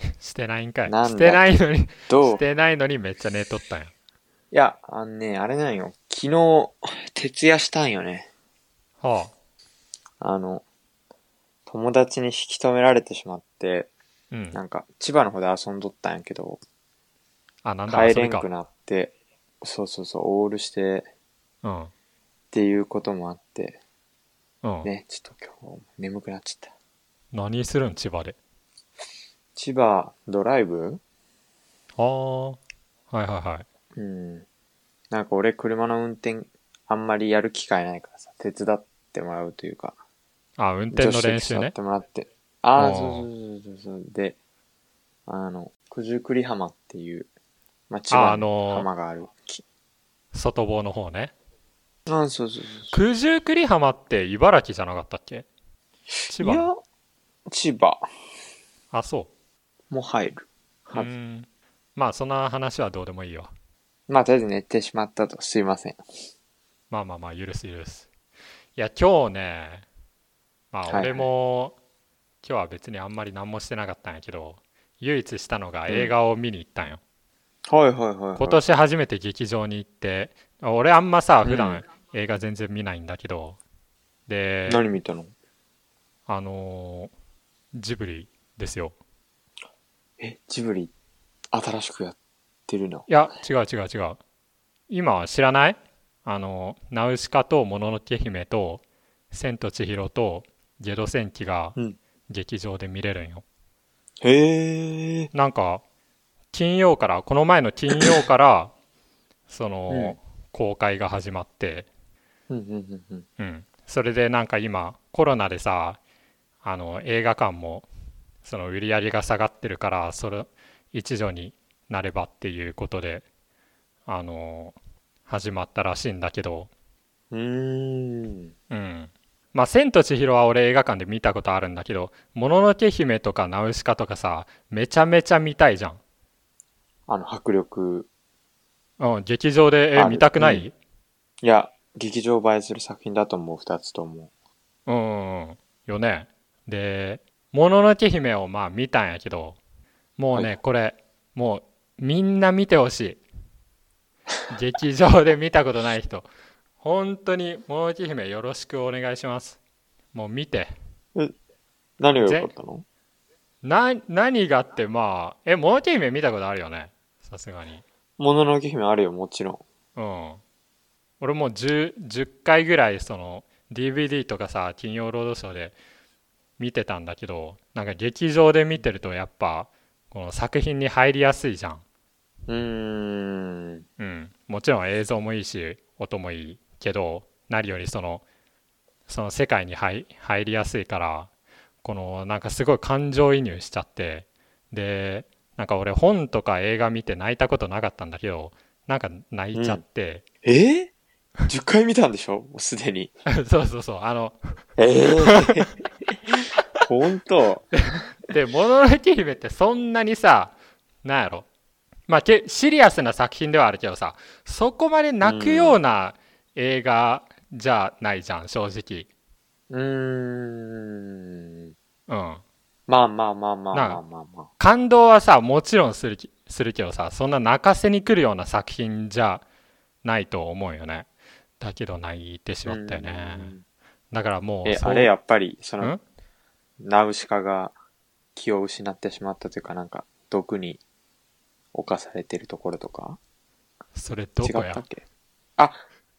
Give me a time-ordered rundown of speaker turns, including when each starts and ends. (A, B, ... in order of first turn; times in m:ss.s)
0:00.2-0:03.9 A
0:00.8-0:02.4 B
0:04.5-0:08.3 B
0:09.0-0:09.3 A
0:10.2-0:10.6 B
0:11.7-0:13.9 B
0:14.3-0:14.6 A
0:14.5-0:16.6 B
0:17.6-0:18.5 A
0:17.9-0:21.1 B
0:21.6-0:21.9 A
0:22.5-0:23.8 B
0:24.6-0:24.9 A
0:24.8-0:26.7 B
0:27.3-0:28.4 A
0:29.6-0:31.0 B
0:32.0-0:32.6 A
0:33.1-0:33.6 A
0:34.0-0:34.4 B
0:35.1-0:40.0 B
0:40.6-0:41.7 A
0:40.9-0:44.4 B
0:42.8-0:43.3 A
0:45.3-0:47.3 B
0:47.9-0:49.6 B
0:48.1-0:48.9 A
0:50.3-0:51.3 A
0:52.1-0:53.0 B
0:52.9-0:55.4 A
0:56.3-0:56.7 A
0:56.4-0:56.8 B
0:57.5-0:58.0 B
0:58.9-0:59.3 A
0:59.9-1:01.1 B
1:00.9-1:03.5 A
1:04.1-1:06.0 B
1:06.9-1:08.1 A
1:08.8-1:09.8 A
1:10.7-1:11.8 A
1:10.9-1:11.3 B
1:12.4-1:17.0 A
1:17.7-1:18.6 B
1:18.4-1:23.6 A
1:21.4-1:21.8 B
1:24.3-1:24.8 A
1:24.7-1:25.3 B
1:26.3-1:27.1 A
1:27.7-1:28.9 A
1:30.2-1:30.9 B
1:31.5-1:32.2 B
1:32.7-1:33.2 B
1:33.1-1:34.2 A
1:34.9-1:41.8 A
1:42.3-1:43.4 A
1:44.2-1:45.3 B
1:45.3-1:45.8 A
1:46.5-1:48.7 A
1:49.5-1:51.9 A
1:49.9-1:50.2 B
1:52.5-1:53.2 B
1:53.4-1:56.0 A
1:56.6-1:57.9 A
1:58.4-2:03.2 A
2:04.1-2:04.8 A
2:05.3-2:06.7 A
2:07.3-2:08.5 B
2:08.7-2:16.0 A
2:17.1-2:18.1 B
2:19.0-2:20.7 A
2:19.9-2:20.6 B
2:21.4-2:24.3 B
2:24.9-2:29.6 A
2:30.2-2:33.2 A
2:34.5-2:36.3 A
2:36.8-2:39.6 A
2:40.1-2:40.8 A
2:42.0-2:42.8 B
2:42.2-2:42.5 A
2:43.6-2:47.8 A
2:48.2-2:49.6 B
2:50.0-2:50.4 A
2:51.2-2:55.8 A
2:56.6-3:01.8 A
3:02.5-3:03.8 B
3:04.0-3:08.2 A
3:09.1-3:11.3 A
3:11.8-3:20.2 A
3:19.5-3:19.8 B
3:20.4-3:20.9 B
3:21.5-3:23.1 B
3:23.3-3:24.4 A
3:24.8-3:25.7 B
3:26.8-3:27.7 B
3:27.8-3:31.4 A
3:32.1-3:39.1 A
3:35.2-3:35.8 B
3:39.7-3:41.7 B
3:42.1-3:42.4 A
3:42.9-3:44.5 B
3:43.7-3:44.0 A
3:44.6-3:49.4 A
3:50.0-3:51.1 A
3:51.6-3:53.5 A
3:52.6-3:53.6 B
3:54.1-3:55.1 A
3:54.6-3:55.9 B
3:56.8-3:57.7 B
3:58.4-4:00.8 B
4:01.7-4:03.2 B
4:03.9-4:04.8 A
4:04.4-4:05.0 B